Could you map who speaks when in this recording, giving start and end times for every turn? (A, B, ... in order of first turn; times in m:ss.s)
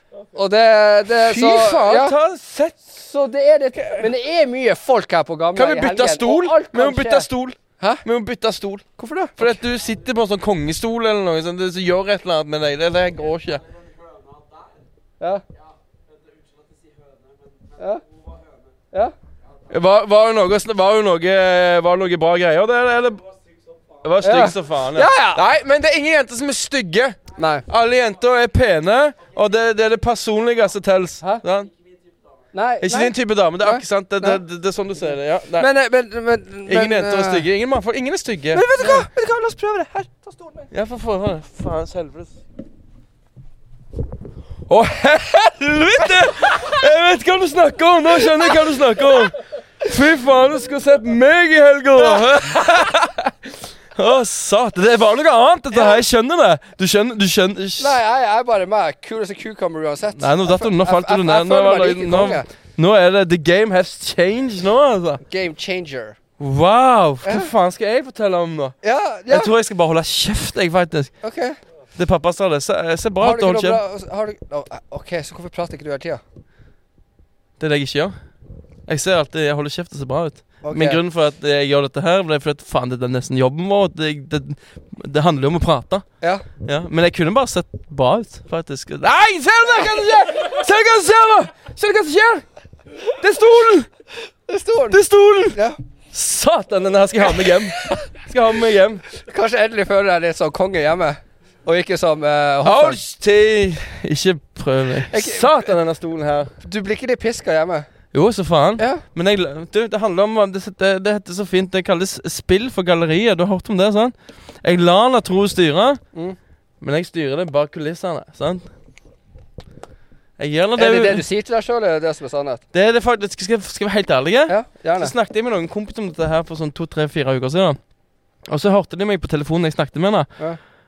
0:00.3-0:02.2 A
0:01.1-0:02.8 B
0:02.8-0:07.3 A
0:03.8-0:04.1 B
0:05.5-0:08.8 B
0:09.0-0:09.6 A
0:09.4-0:13.7 B
0:17.8-0:18.0 A
0:19.7-0:23.2 B
0:24.0-0:31.7 B
0:24.2-0:25.4 A
0:27.3-0:27.6 A
0:32.5-0:34.4 A
0:32.8-0:35.7 B
0:35.6-0:37.4 A
0:36.6-0:39.1 B
0:38.5-0:40.7 A
0:40.7-0:42.4 B
0:44.7-0:58.0 B
0:55.7-0:56.0 A
0:57.8-1:02.5 A
1:00.2-1:05.2 B
1:05.2-1:06.2 A
1:06.4-1:08.7 B
1:07.2-1:07.5 A
1:08.8-1:09.5 A
1:09.3-1:11.1 B
1:11.2-1:11.6 A
1:12.0-1:13.8 B
1:13.2-1:16.2 A
1:17.6-1:18.1 B
1:18.9-1:26.0 B
1:20.6-1:21.0 A
1:26.6-1:32.4 B
1:33.0-1:33.9 B
1:34.5-1:35.0 A
1:34.9-1:35.6 B
1:35.5-1:35.8 A
1:36.1-1:39.0 B
1:39.2-1:43.0 A
1:42.6-1:46.5 B
1:45.1-1:45.7 A
1:46.6-1:47.9 A
1:48.1-1:56.0 B
1:48.8-1:49.0 A
1:56.8-1:58.7 B
2:00.4-2:01.2 B
2:00.8-2:02.6 A
2:02.7-2:07.8 B
2:04.5-2:05.1 A
2:08.5-2:10.3 B